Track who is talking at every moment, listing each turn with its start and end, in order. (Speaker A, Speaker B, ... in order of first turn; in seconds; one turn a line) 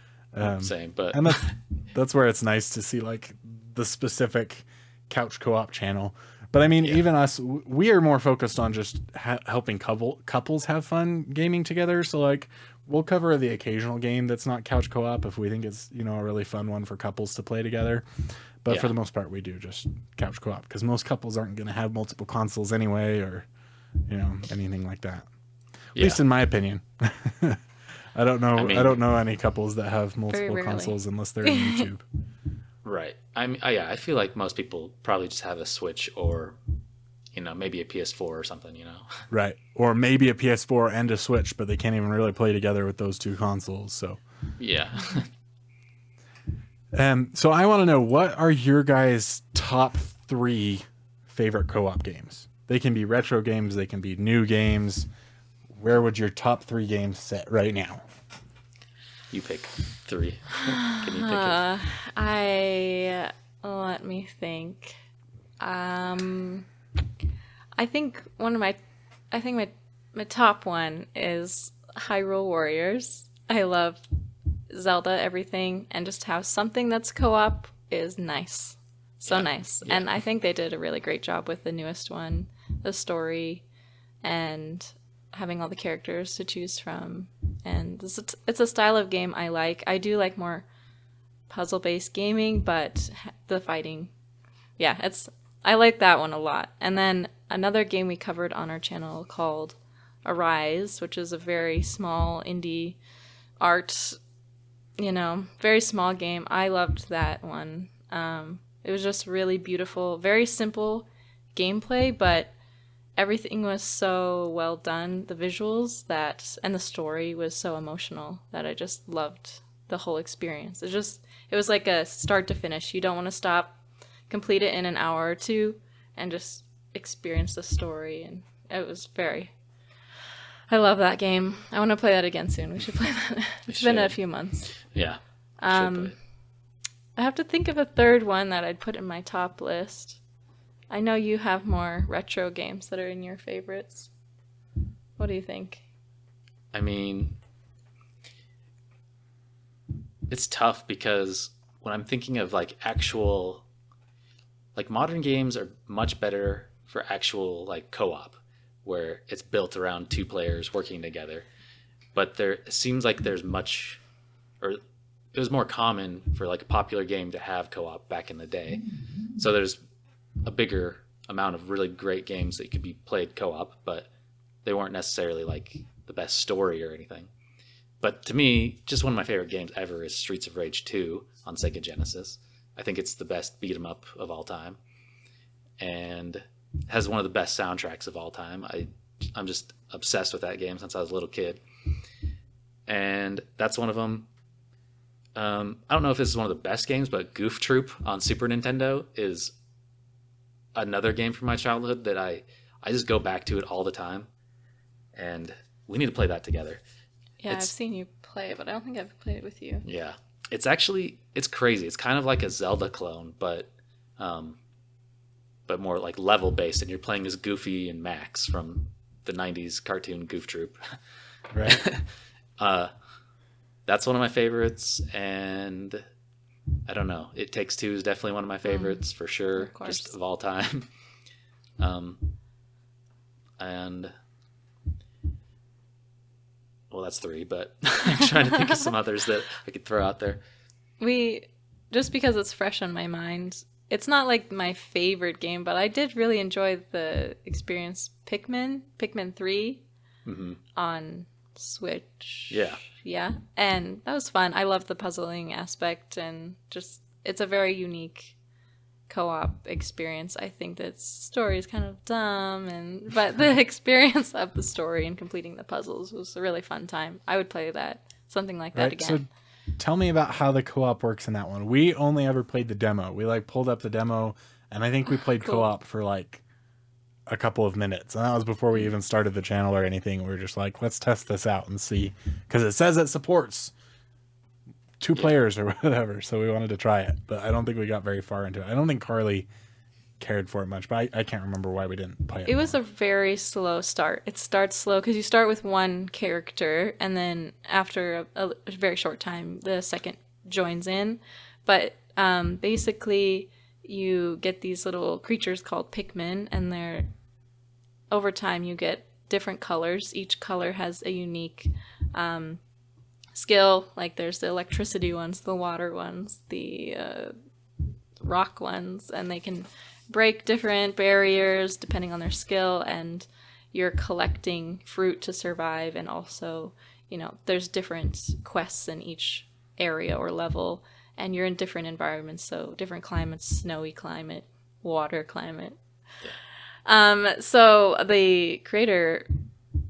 Speaker A: 0.3-18.1
Speaker B: 0.4-1.5
Speaker A: 18.6-23.5
Speaker A: 24.1-25.3
Speaker B: 26.0-26.2
Speaker A: 26.0-27.6
Speaker A: 28.1-32.0
Speaker B: 28.6-29.0
Speaker C: 30.3-31.9
Speaker B: 32.8-36.6
Speaker B: 37.3-39.2
Speaker A: 39.3-44.2
Speaker B: 44.6-45.3
Speaker A: 46.9-55.1
Speaker A: 55.7-58.0
Speaker B: 59.3-61.6
Speaker C: 60.6-65.0
Speaker C: 65.6-66.7
Speaker C: 67.8-68.8
Speaker C: 69.3-74.0
Speaker C: 74.7-83.6
Speaker B: 79.3-80.1
Speaker C: 84.2-90.7
Speaker C: 91.5-94.1
Speaker C: 94.8-103.0
Speaker C: 103.6-104.2
Speaker C: 105.0-112.5
Speaker C: 113.2-123.8
Speaker C: 124.3-129.5
Speaker C: 130.7-134.8
Speaker B: 133.7-134.2
Speaker B: 134.8-136.2
Speaker C: 135.6-136.2
Speaker C: 137.2-140.2
Speaker C: 140.9-144.1
Speaker C: 145.2-145.8
Speaker B: 146.7-147.4
Speaker B: 150.3-153.7
Speaker B: 154.8-161.5
Speaker B: 162.1-164.0
Speaker B: 165.3-168.8
Speaker B: 169.3-169.8
Speaker B: 170.4-174.1
Speaker B: 174.6-177.3
Speaker B: 178.0-184.8
Speaker B: 185.8-191.6
Speaker B: 192.9-194.3
Speaker B: 195.3-199.5
Speaker B: 200.8-204.3
Speaker B: 205.1-206.8
Speaker C: 207.4-209.9
Speaker B: 209.8-214.6
Speaker B: 215.7-221.0
Speaker A: 221.5-221.8
Speaker B: 221.6-222.9
Speaker B: 223.9-226.0
Speaker B: 226.9-230.9
Speaker C: 228.7-229.0
Speaker C: 229.6-230.1
Speaker B: 231.8-232.3
Speaker B: 233.6-234.1
Speaker B: 236.9-240.4
Speaker C: 241.0-249.8
Speaker B: 250.2-250.6
Speaker C: 250.8-258.4
Speaker B: 252.5-252.8
Speaker C: 259.1-269.2
Speaker A: 268.8-269.3
Speaker A: 269.8-276.4
Speaker A: 277.3-283.7
Speaker A: 285.0-289.5
Speaker A: 290.2-292.8
Speaker C: 292.5-307.1
Speaker C: 308.1-312.6
Speaker C: 313.3-317.4
Speaker C: 318.2-335.8
Speaker C: 336.9-339.4